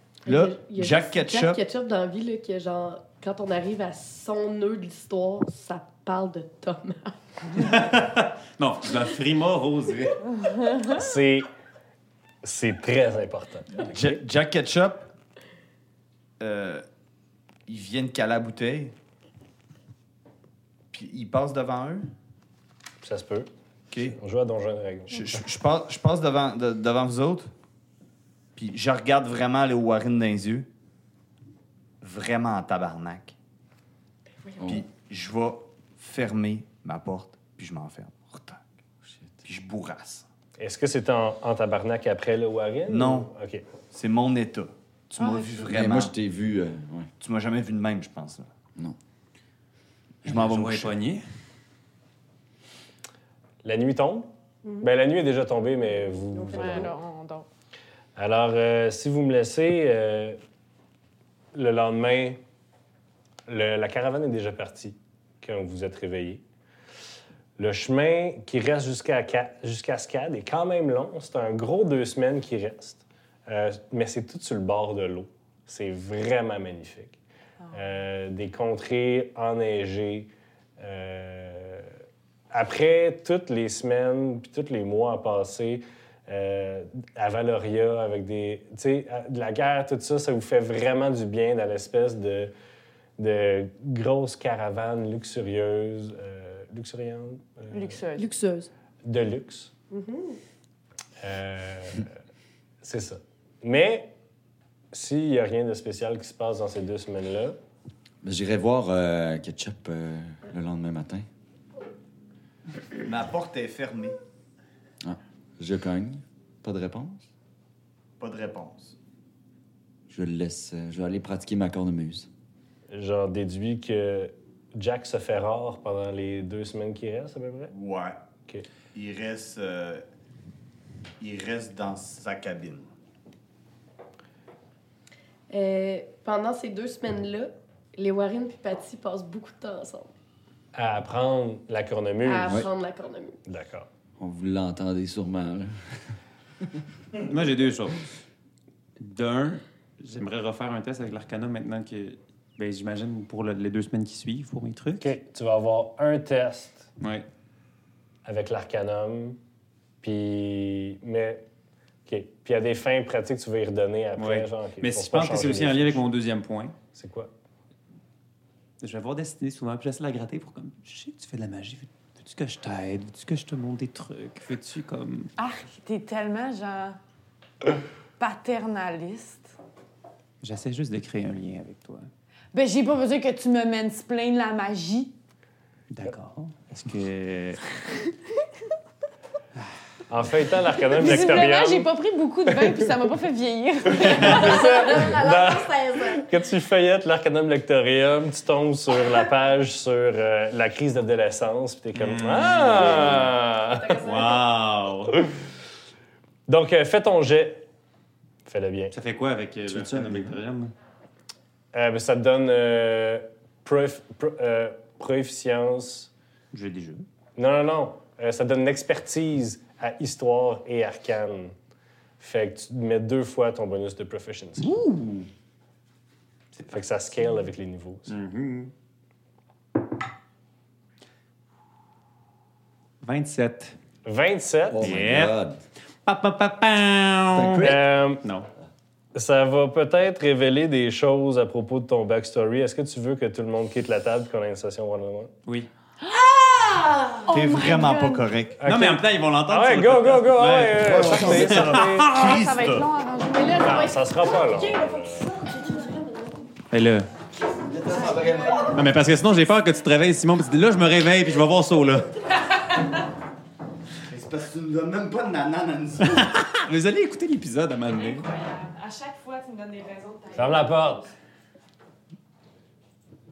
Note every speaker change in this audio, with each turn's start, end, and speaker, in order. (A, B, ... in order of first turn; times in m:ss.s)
0:00.3-0:01.6 A
0:00.3-0:07.1 B
0:07.6-0:10.2 C
0:10.4-0:10.9 D
0:10.9-0:11.5 E
0:12.4-0:14.1 E
0:13.8-0:15.1 A
0:16.4-0:16.8 A
0:17.7-0:18.9 A
0:20.9-0:22.1 A
0:23.0-0:25.4 E
0:25.1-0:27.5 A
0:28.6-0:30.7 A
0:32.0-0:33.4 A
0:34.6-0:34.8 F
0:34.6-0:38.6 A
0:39.1-0:39.4 F
0:39.4-0:40.3 A
0:40.6-0:43.6 E
0:42.9-0:43.3 A
0:43.9-0:46.1 A
0:45.6-0:47.1 F
0:47.2-0:48.5 A
0:50.2-0:50.9 A
0:50.2-0:51.2 C
0:53.6-0:54.3 E
0:54.8-0:56.9 E
0:56.3-0:56.9 B
0:56.6-0:57.5 D
0:58.2-1:00.4 E
1:01.5-1:02.4 E
1:03.5-1:06.4 E
1:07.6-1:17.2 E
1:17.7-1:21.9 E
1:22.5-1:32.5 E
1:33.2-1:38.0 E
1:37.7-1:38.3 D
1:38.2-1:38.7 B
1:39.0-1:39.7 E
1:39.9-1:40.4 B
1:41.2-1:42.1 E
1:42.8-1:44.1 E
1:44.9-1:47.6 E
1:48.2-1:51.3 F
1:53.0-1:54.2 A
1:55.0-1:57.3 F
1:58.2-1:59.0 A
2:00.1-2:02.3 F
2:02.9-2:07.7 E
2:07.7-2:08.2 A
2:08.9-2:10.0 A
2:11.2-2:12.9 A
2:15.5-2:20.1 B
2:20.8-2:22.6 E
2:22.2-2:23.4 B
2:23.5-2:23.9 E
2:24.2-2:26.1 F
2:27.2-2:28.0 C
2:29.0-2:35.1 C
2:35.0-2:36.9 E
2:37.0-2:37.3 C
2:38.2-2:39.4 E
2:40.0-2:41.4 E
2:42.1-2:46.0 E
2:44.2-2:46.8 C
2:46.9-2:47.3 E
2:48.8-2:55.3 C
2:55.4-2:57.0 D
2:58.2-2:59.6 D
3:00.4-3:02.1 C
3:02.5-3:05.1 D
3:05.9-3:07.7 C
3:10.1-3:11.9 E
3:10.9-3:14.8 D
3:13.9-3:24.0 E
3:14.2-3:16.3 B
3:22.0-3:23.3 C
3:23.7-3:24.4 B
3:24.0-3:25.2 C
3:26.5-3:27.7 E
3:28.5-3:28.9 E
3:28.9-3:30.7 C
3:29.7-3:30.4 F
3:31.7-3:36.1 E
3:36.5-3:37.1 C
3:37.4-3:41.6 E
3:42.2-3:44.7 E
3:44.6-3:45.3 C
3:46.7-3:48.2 E
3:48.1-3:48.7 C
3:53.0-3:53.7 C
3:54.0-3:54.9 E
3:54.7-3:55.6 F
3:54.8-3:55.4 C
3:56.1-3:58.5 C
3:57.3-3:57.8 F
3:57.6-3:58.2 E
3:59.1-4:05.3 E
4:06.0-4:08.3 D
4:06.7-4:07.3 B
4:07.3-4:08.6 A
4:08.6-4:12.1 E
4:08.6-4:12.3 C
4:10.8-4:12.9 A
4:12.1-4:13.9 D
4:13.3-4:16.3 B
4:13.6-4:15.3 E
4:16.7-4:17.1 C
4:17.7-4:18.8 F
4:18.7-4:22.2 C
4:24.1-4:26.3 A
4:26.0-4:28.3 C
4:27.9-4:30.8 D
4:30.3-4:31.1 E